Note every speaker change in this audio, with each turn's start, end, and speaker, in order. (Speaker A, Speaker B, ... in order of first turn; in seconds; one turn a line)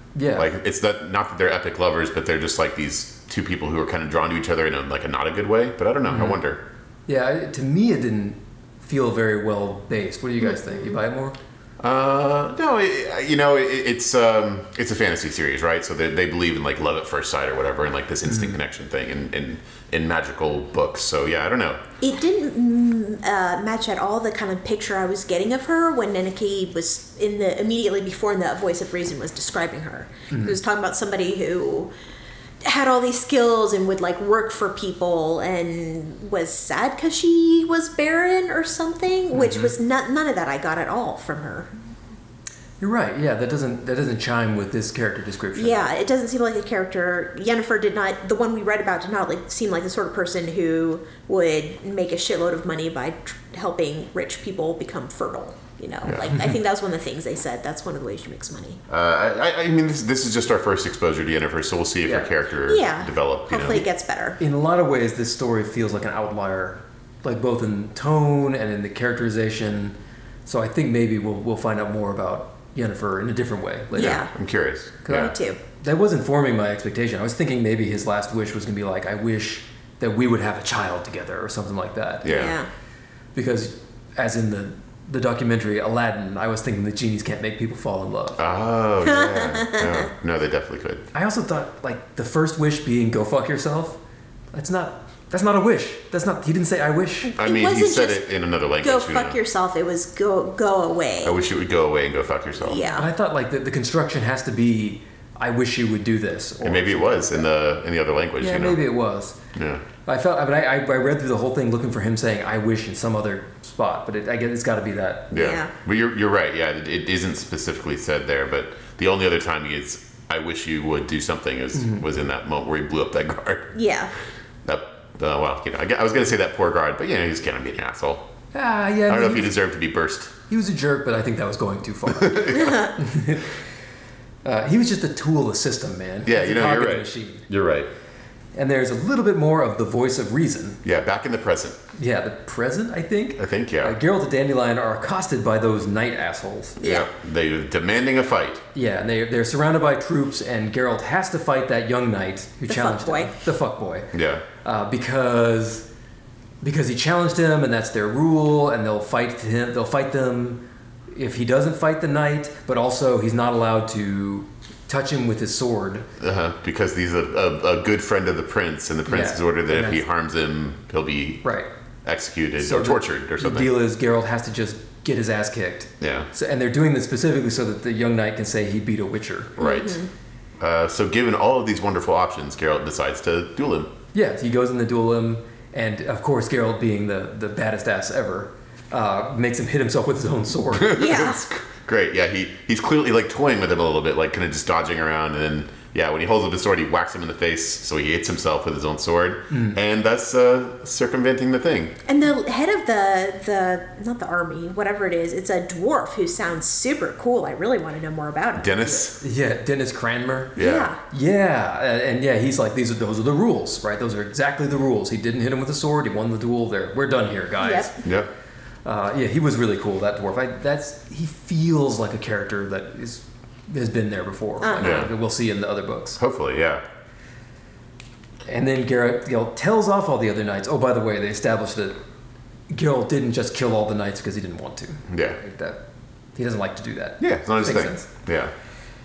Speaker A: 0.1-0.5
Speaker B: 0.3-6.6
Speaker A: 6.1-6.4
Speaker A: 7.1-11.4
Speaker B: 11.8-21.8
Speaker A: 18.3-18.6
Speaker C: 22.0-31.9
Speaker C: 32.6-41.7
Speaker A: 39.3-39.7
Speaker A: 42.8-45.9
Speaker C: 45.5-58.8
Speaker B: 56.0-56.3
Speaker A: 56.3-56.6
Speaker B: 58.9-63.9
Speaker A: 62.0-62.3
Speaker C: 62.7-64.4
Speaker A: 64.4-70.0
Speaker A: 70.5-74.3
Speaker C: 73.9-74.3
Speaker B: 74.0-75.3
Speaker A: 75.1-82.3
Speaker C: 75.1-75.6
Speaker B: 82.2-82.6
Speaker C: 82.2-82.7
Speaker A: 83.3-88.4
Speaker B: 88.4-91.0
Speaker C: 89.0-90.1
Speaker A: 91.1-94.0
Speaker A: 94.5-97.3
Speaker C: 97.3-98.3
Speaker B: 97.4-99.4
Speaker C: 98.8-101.4
Speaker B: 101.2-102.8
Speaker C: 102.6-103.1
Speaker A: 102.8-107.5
Speaker B: 106.6-108.8
Speaker A: 108.4-109.4
Speaker B: 109.5-109.8
Speaker A: 110.0-115.4
Speaker C: 115.3-115.7
Speaker B: 115.3-123.8
Speaker A: 121.8-122.0
Speaker C: 123.7-124.1
Speaker B: 124.7-128.2
Speaker A: 128.5-129.6
Speaker B: 129.1-130.3
Speaker A: 130.5-133.5
Speaker B: 132.1-132.8
Speaker C: 132.5-132.9
Speaker A: 134.4-137.5
Speaker B: 136.2-137.9
Speaker A: 138.6-140.8
Speaker B: 140.8-141.8
Speaker A: 141.9-146.8
Speaker B: 143.4-144.0
Speaker C: 146.8-147.1
Speaker B: 146.8-148.6
Speaker A: 148.7-155.9
Speaker C: 152.7-153.3
Speaker B: 154.1-154.4
Speaker A: 156.6-166.1
Speaker B: 166.2-171.4
Speaker A: 169.1-170.0
Speaker A: 171.4-171.7
Speaker B: 172.0-173.7
Speaker A: 172.6-179.6
Speaker B: 176.0-176.3
Speaker B: 179.6-180.0
Speaker C: 179.6-180.1
Speaker B: 180.6-183.9
Speaker A: 184.1-191.0
Speaker B: 190.7-201.9
Speaker C: 191.0-191.4
Speaker A: 199.5-199.8
Speaker C: 202.1-208.7
Speaker B: 208.6-209.2
Speaker A: 208.8-218.0
Speaker B: 210.6-210.9
Speaker C: 210.6-211.0
Speaker C: 217.6-218.0
Speaker B: 218.0-218.3
Speaker A: 218.8-226.2
Speaker C: 224.6-225.1
Speaker B: 224.8-225.1
Speaker B: 226.2-226.8
Speaker A: 228.5-232.0
Speaker A: 232.7-235.8
Speaker B: 235.1-235.4
Speaker A: 236.4-238.1
Speaker B: 237.2-238.5